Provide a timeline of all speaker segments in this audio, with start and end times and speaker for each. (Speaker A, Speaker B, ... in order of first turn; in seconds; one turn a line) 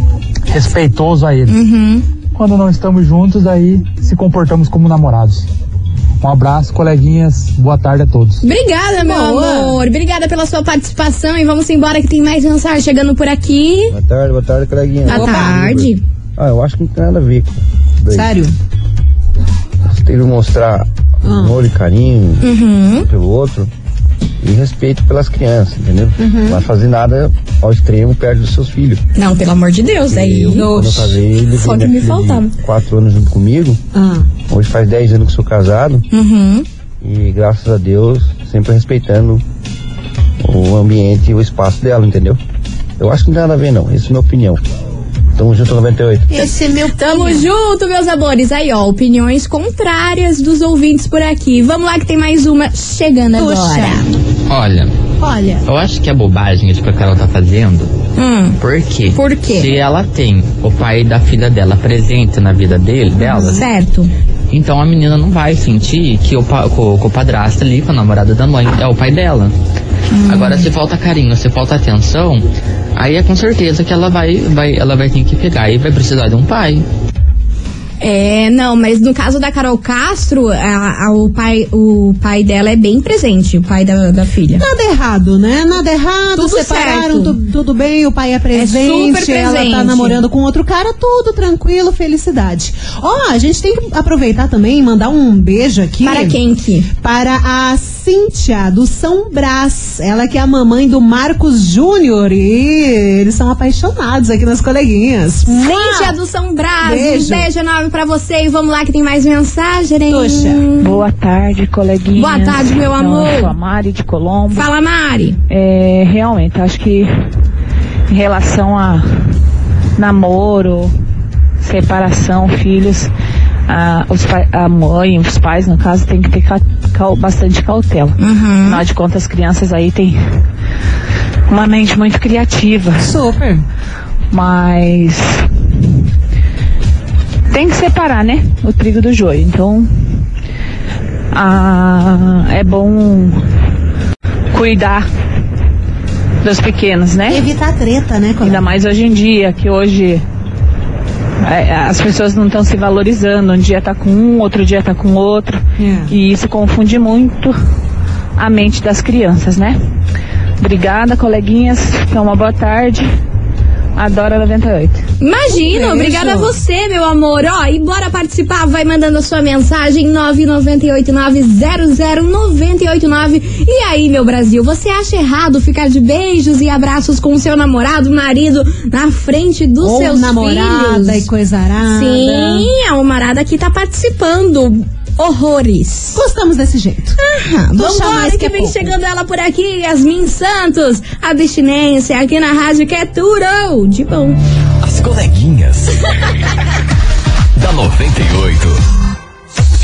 Speaker A: 0.5-1.6
Speaker B: 1.5-2.0
Speaker A: 2.4-5.5
Speaker A: 6.2-8.4
Speaker B: 8.4-13.9
Speaker C: 9.0-9.8
Speaker D: 13.9-18.3
Speaker B: 15.1-16.0
Speaker C: 15.1-15.6
Speaker C: 18.1-18.5
Speaker D: 19.9-23.7
Speaker C: 21.2-21.6
Speaker B: 22.4-23.1
Speaker D: 24.4-29.0
Speaker C: 26.2-26.6
Speaker B: 29.1-30.7
Speaker D: 30.1-33.8
Speaker C: 30.5-31.1
Speaker B: 31.4-32.5
Speaker C: 34.0-34.2
Speaker D: 34.5-36.0
Speaker B: 36.1-36.7
Speaker D: 37.0-39.4
Speaker D: 40.4-42.4
Speaker D: 43.0-44.6
Speaker D: 45.4-46.3
Speaker C: 46.3-47.5
Speaker B: 46.3-54.1
Speaker C: 53.4-54.1
Speaker E: 54.5-54.9
Speaker C: 55.2-55.7
Speaker E: 55.7-57.9
Speaker B: 58.2-58.6
Speaker E: 58.6-63.6
Speaker B: 59.1-59.7
Speaker C: 63.2-63.6
Speaker B: 63.5-64.1
Speaker E: 64.5-69.5
Speaker B: 70.1-70.7
Speaker E: 70.3-72.4
Speaker E: 73.0-76.8
Speaker B: 78.0-84.6
Speaker C: 84.6-96.4
Speaker B: 86.3-87.3
Speaker B: 88.5-90.2
Speaker B: 96.0-96.9
Speaker C: 97.0-106.2
Speaker B: 105.5-111.0
Speaker C: 106.8-107.5
Speaker C: 110.1-110.7
Speaker F: 110.8-114.7
Speaker B: 112.2-113.5
Speaker B: 114.5-115.4
Speaker F: 115.5-117.1
Speaker F: 118.1-119.3
Speaker F: 120.0-120.9
Speaker F: 121.6-123.1
Speaker F: 123.7-130.4
Speaker B: 128.2-128.8
Speaker F: 131.5-133.1
Speaker C: 133.0-133.6
Speaker F: 134.3-135.4
Speaker F: 137.5-140.2
Speaker F: 141.3-143.4
Speaker F: 144.5-145.0
Speaker F: 146.4-147.5
Speaker C: 147.3-148.8
Speaker F: 148.4-150.2
Speaker F: 151.4-157.5
Speaker C: 155.8-156.1
Speaker F: 158.4-159.8
Speaker F: 160.6-163.0
Speaker F: 163.9-165.1
Speaker B: 165.2-181.3
Speaker C: 165.5-166.5
Speaker C: 179.8-182.7
Speaker B: 181.9-186.2
Speaker C: 186.2-187.2
Speaker B: 187.2-194.4
Speaker C: 187.8-188.9
Speaker G: 194.8-196.1
Speaker G: 197.6-198.8